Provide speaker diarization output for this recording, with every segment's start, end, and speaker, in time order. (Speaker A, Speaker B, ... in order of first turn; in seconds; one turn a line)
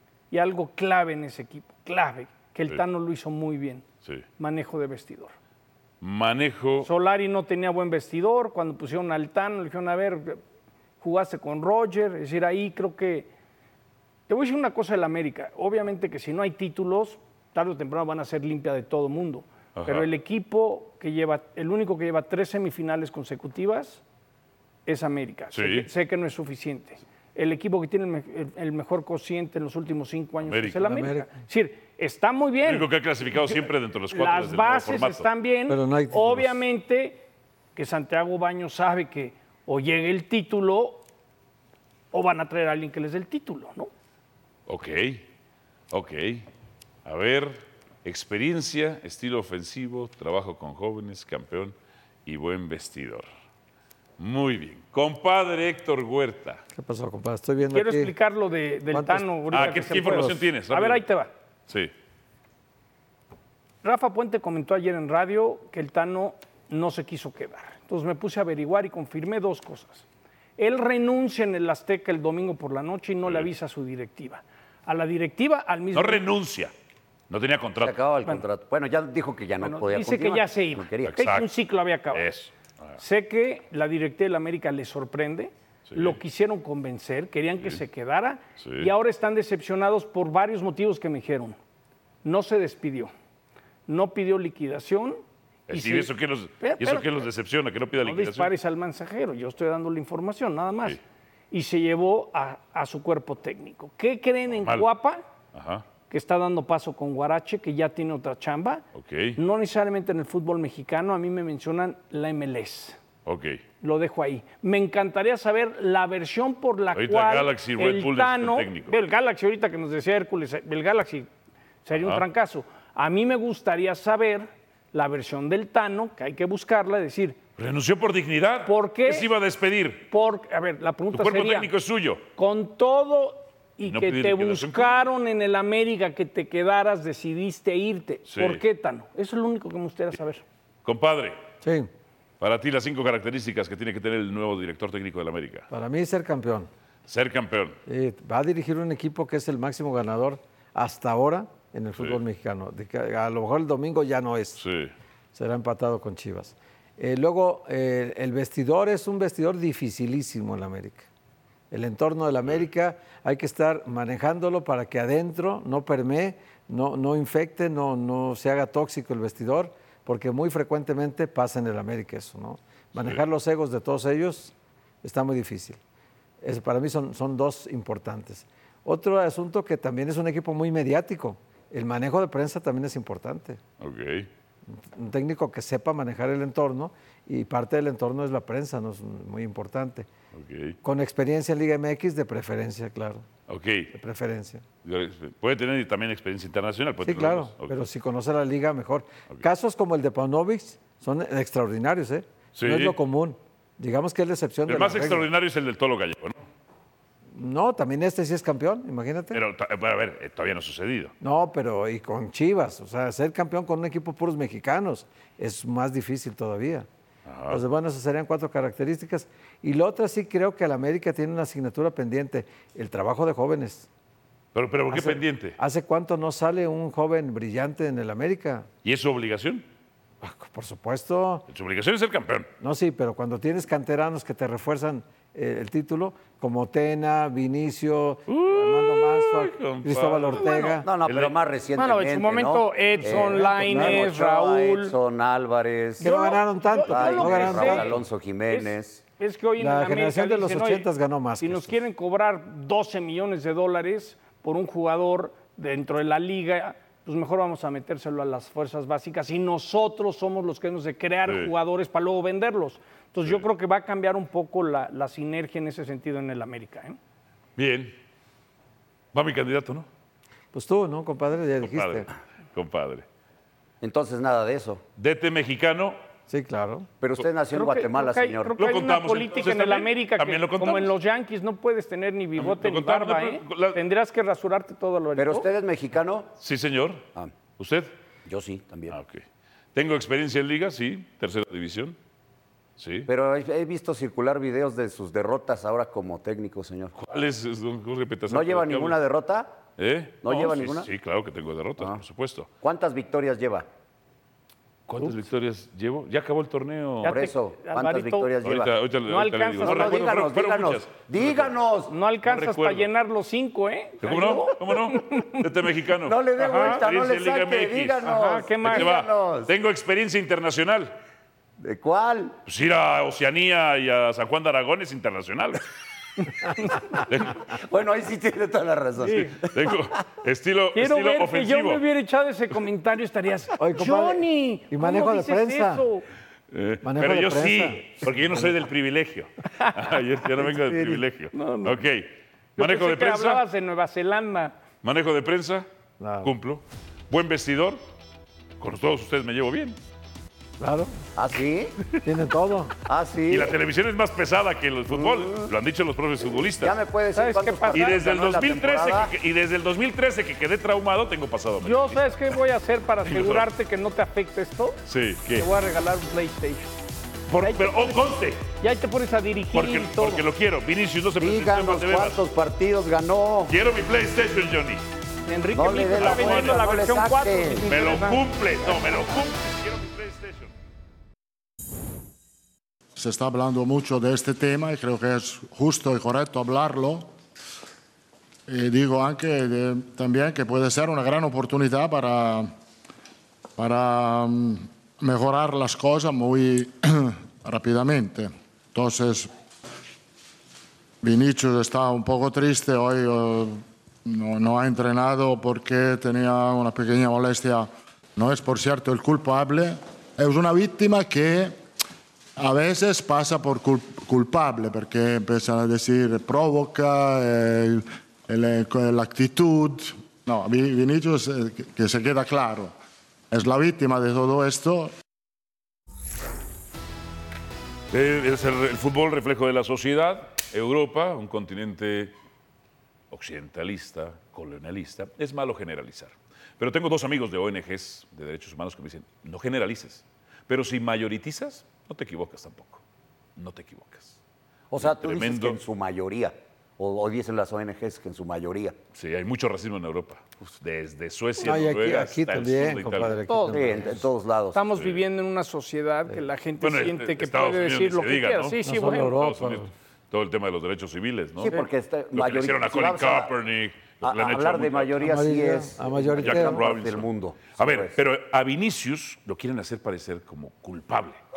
Speaker A: 0.3-3.8
Speaker A: 4.4-5.3
Speaker B: 6.0-6.9
Speaker A: 6.8-10.4
Speaker A: 11.0-13.3
Speaker A: 14.3-24.0
Speaker B: 19.8-20.1
Speaker A: 24.9-37.2
Speaker B: 25.5-25.9
Speaker B: 30.4-30.8
Speaker C: 30.8-31.3
Speaker B: 32.6-35.3
Speaker C: 35.7-36.6
Speaker A: 37.8-41.0
Speaker A: 42.1-43.9
Speaker B: 44.7-45.3
Speaker B: 45.9-46.5
Speaker B: 47.0-51.8
Speaker B: 52.3-53.3
Speaker B: 54.2-56.6
Speaker C: 56.8-58.1
Speaker A: 57.7-61.3
Speaker C: 58.9-60.4
Speaker B: 59.5-61.0
Speaker A: 63.8-70.0
Speaker A: 70.6-76.2
Speaker B: 75.9-76.7
Speaker B: 77.3-78.0
Speaker D: 77.8-81.2
Speaker A: 79.6-82.2
Speaker B: 81.1-81.5
Speaker B: 82.1-83.0
Speaker A: 83.0-91.6
Speaker B: 85.9-86.2
Speaker B: 88.6-88.9
Speaker A: 92.2-93.1
Speaker A: 93.9-95.2
Speaker B: 95.7-98.5
Speaker A: 95.7-97.3
Speaker A: 98.0-101.0
Speaker A: 101.5-105.2
Speaker B: 105.5-105.8
Speaker A: 106.1-108.8
Speaker B: 108.9-109.4
Speaker A: 109.4-113.0
Speaker B: 113.3-113.6
Speaker A: 113.8-121.3
Speaker B: 117.0-119.0
Speaker A: 121.8-127.4
Speaker B: 122.0-122.2
Speaker B: 127.6-130.1
Speaker A: 128.7-129.3
Speaker A: 130.1-131.7
Speaker B: 131.1-132.2
Speaker A: 132.4-140.4
Speaker B: 133.8-135.0
Speaker B: 138.3-138.6
Speaker B: 140.8-141.4
Speaker C: 141.6-141.9
Speaker B: 142.4-145.7
Speaker C: 145.7-146.7
Speaker B: 147.1-147.8
Speaker C: 147.9-154.6
Speaker B: 154.6-154.9
Speaker C: 155.3-161.1
Speaker C: 161.7-175.8
Speaker C: 176.4-183.6
Speaker B: 183.8-184.3
Speaker C: 184.7-190.1
Speaker B: 190.3-190.8
Speaker C: 190.8-193.3
Speaker B: 193.5-193.9
Speaker C: 193.9-194.6
Speaker B: 194.8-197.8
Speaker C: 197.0-205.3
Speaker B: 202.6-203.0
Speaker B: 204.7-206.4
Speaker C: 207.3-209.4
Speaker B: 209.3-211.1
Speaker C: 211.2-216.9
Speaker B: 217.3-217.6
Speaker C: 217.5-223.9
Speaker B: 224.5-225.6
Speaker C: 224.9-228.7
Speaker B: 228.8-229.7
Speaker C: 230.2-231.5
Speaker B: 231.5-232.5
Speaker C: 232.6-240.9
Speaker B: 238.3-240.5
Speaker A: 240.4-240.8
Speaker D: 240.8-246.1
Speaker B: 241.1-241.3
Speaker A: 241.8-244.9
Speaker C: 243.0-244.1
Speaker C: 246.0-248.0
Speaker A: 246.0-247.9
Speaker D: 246.9-249.0
Speaker A: 248.5-250.9
Speaker C: 249.6-251.8
Speaker A: 251.4-267.0
Speaker B: 261.3-261.5
Speaker B: 267.6-267.9
Speaker B: 269.1-269.9
Speaker C: 270.5-272.1
Speaker B: 271.6-273.1
Speaker D: 273.8-274.8
Speaker B: 275.0-276.0
Speaker C: 276.3-276.9
Speaker D: 277.0-278.6
Speaker A: 277.5-285.5
Speaker B: 278.6-280.9
Speaker B: 282.4-283.8
Speaker D: 285.2-286.3
Speaker B: 286.4-287.0
Speaker B: 287.6-287.9
Speaker D: 288.3-289.0
Speaker B: 288.9-289.2
Speaker B: 289.8-292.0
Speaker B: 292.8-293.1
Speaker D: 293.1-296.9
Speaker B: 297.0-299.0
Speaker D: 298.3-299.6
Speaker B: 299.8-302.5
Speaker D: 300.2-300.9
Speaker D: 302.6-303.7
Speaker B: 304.9-307.2
Speaker A: 307.0-308.3
Speaker D: 307.0-308.7
Speaker B: 308.4-311.5
Speaker A: 309.1-310.1
Speaker D: 309.6-311.9
Speaker A: 311.9-315.4
Speaker B: 312.2-312.9
Speaker B: 314.0-318.1
Speaker D: 314.0-314.5
Speaker D: 316.0-319.5
Speaker A: 316.4-316.8
Speaker A: 318.0-318.9
Speaker B: 318.6-321.0
Speaker D: 321.6-322.4
Speaker B: 322.5-325.7
Speaker B: 326.7-327.4
Speaker D: 327.3-329.8
Speaker A: 329.0-329.4
Speaker B: 329.5-331.8
Speaker A: 330.8-336.1
Speaker C: 333.6-335.9
Speaker B: 336.5-343.4
Speaker C: 336.8-338.5
Speaker A: 341.3-341.8
Speaker A: 342.6-344.6
Speaker B: 344.8-345.7
Speaker C: 346.0-346.3
Speaker B: 346.2-347.8
Speaker B: 348.6-349.8
Speaker C: 350.6-350.9
Speaker D: 351.2-351.8
Speaker C: 352.0-352.8
Speaker D: 352.9-353.6
Speaker B: 353.3-356.8
Speaker D: 354.9-355.5
Speaker D: 356.4-359.1
Speaker A: 357.1-358.0
Speaker B: 357.7-362.4
Speaker A: 361.6-364.8
Speaker B: 363.0-363.5
Speaker B: 364.9-365.5
Speaker A: 365.3-366.7
Speaker B: 367.3-368.4
Speaker A: 367.4-368.0
Speaker A: 368.6-370.2
Speaker B: 369.5-372.2
Speaker D: 371.2-373.5
Speaker B: 373.5-374.8
Speaker A: 375.3-379.1
Speaker D: 375.5-377.6
Speaker B: 375.9-376.6
Speaker B: 377.7-380.5
Speaker E: 383.0-387.1
Speaker E: 388.5-392.5
Speaker E: 393.6-399.3
Speaker E: 401.0-411.6
Speaker E: 412.4-422.8
Speaker E: 423.3-424.9
Speaker B: 427.9-432.1
Speaker B: 433.1-442.8
Speaker B: 443.4-444.2
Speaker D: 444.7-448.8
Speaker B: 444.8-445.6
Speaker B: 448.9-453.2
Speaker C: 451.4-454.0
Speaker A: 453.3-453.7
Speaker D: 453.5-454.6
Speaker A: 454.5-459.2
Speaker B: 456.6-465.2
Speaker C: 458.6-459.7
Speaker D: 461.4-463.3
Speaker D: 464.0-467.9
Speaker C: 465.0-466.6
Speaker B: 466.2-471.2